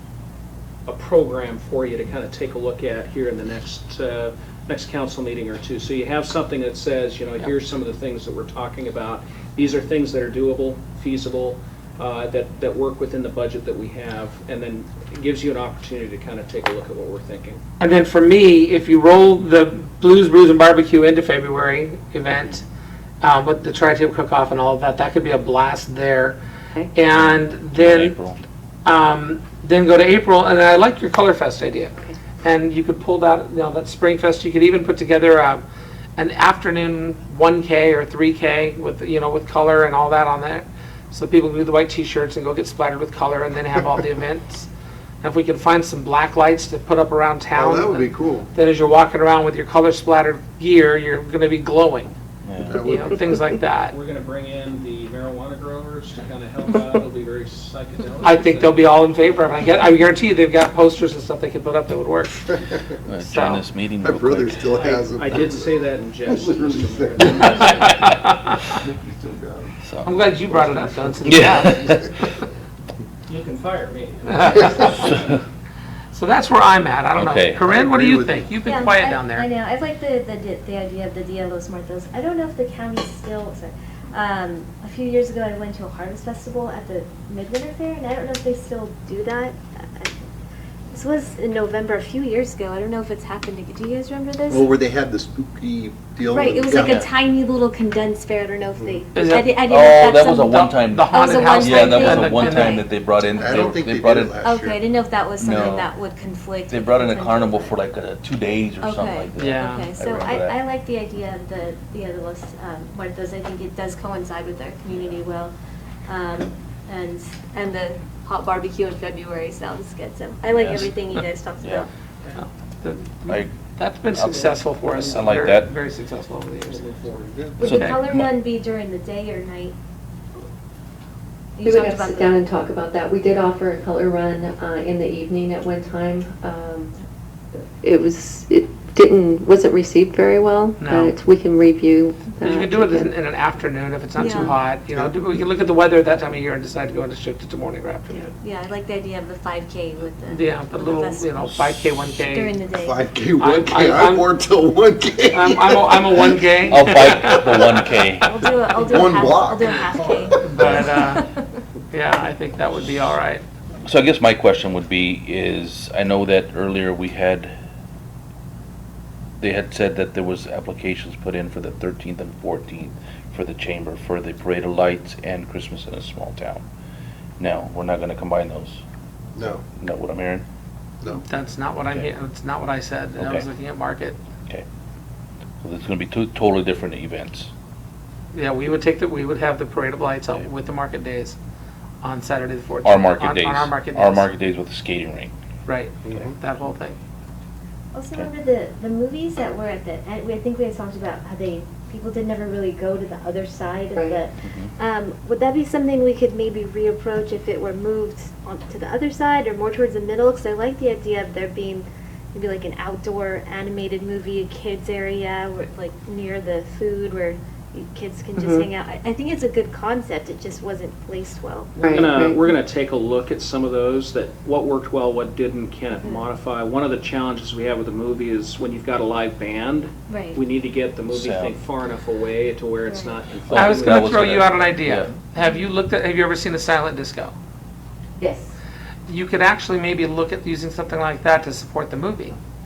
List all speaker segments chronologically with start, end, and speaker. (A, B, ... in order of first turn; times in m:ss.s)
0:00.8-0:17.6 A
0:17.8-0:22.6 B
0:23.2-0:26.4 B
0:26.9-0:28.1 B
0:27.1-0:28.4 C
0:28.8-0:35.6 B
0:36.2-0:44.7 B
0:45.2-0:52.1 B
0:47.5-0:48.5 D
0:52.4-0:52.8 C
0:52.6-0:53.3 D
0:52.7-0:54.0 B
0:53.9-0:58.8 A
0:58.2-1:02.5 B
1:03.1-1:04.6 C
1:03.2-1:03.6 B
1:04.0-1:07.9 D
1:04.8-1:07.9 A
1:07.4-1:08.8 B
1:08.8-1:11.2 D
1:09.8-1:10.1 C
1:10.0-1:12.3 B
1:11.2-1:12.1 C
1:13.3-1:15.2 A
1:14.3-1:15.2 B
1:16.1-1:19.5 B
1:17.1-1:17.7 C
1:17.6-1:18.7 D
1:18.6-1:30.1 E
1:30.9-1:34.6 E
1:34.5-1:37.0 D
1:36.3-1:42.9 E
1:36.7-1:37.1 C
1:38.7-1:39.0 D
1:39.1-1:39.6 B
1:39.6-1:44.4 C
1:40.3-1:42.8 B
1:43.2-1:44.8 D
1:44.4-1:47.8 E
1:45.4-1:45.9 C
1:46.7-1:50.6 C
1:48.8-1:55.5 E
1:49.4-1:49.9 B
1:56.1-2:01.9 E
2:00.5-2:01.9 C
2:02.3-2:06.8 B
2:03.3-2:03.5 C
2:04.1-2:04.5 C
2:04.3-2:05.6 A
2:05.0-2:05.7 C
2:06.6-2:07.6 A
2:07.3-2:07.6 D
2:07.6-2:08.0 B
2:07.6-2:08.3 C
2:07.6-2:09.7 E
2:11.6-2:12.4 E
2:11.6-2:16.9 F
2:17.6-2:23.1 F
2:20.8-2:21.1 B
2:22.4-2:28.3 B
2:24.2-2:24.6 E
2:24.2-2:24.5 F
2:28.4-2:31.3 E
2:30.2-2:32.5 B
2:31.3-2:37.4 D
2:32.3-2:33.0 E
2:33.4-2:34.3 B
2:35.3-2:37.7 B
2:36.7-2:38.4 C
2:38.2-2:41.2 E
2:38.7-2:40.6 D
2:40.4-2:41.3 B
2:40.6-2:40.9 C
2:41.9-2:43.4 B
2:43.8-2:47.5 C
2:49.4-2:56.6 C
2:57.4-2:58.8 C
2:59.4-2:59.6 D
2:59.7-3:00.4 C
3:01.1-3:04.2 B
3:03.2-3:03.4 C
3:05.6-3:07.5 C
3:08.3-3:11.4 B
3:12.0-3:14.3 B
3:12.8-3:15.3 C
3:15.6-3:17.0 B
3:17.9-3:41.7 E
3:24.4-3:24.7 C
3:38.4-3:38.7 F
3:41.7-3:54.1 A
3:41.8-3:42.4 F
3:50.1-3:50.4 E
3:51.1-3:51.6 C
3:52.9-3:53.2 E
3:53.5-3:55.1 C
3:53.5-3:57.3 B
3:58.2-3:58.5 F
3:59.1-4:02.4 B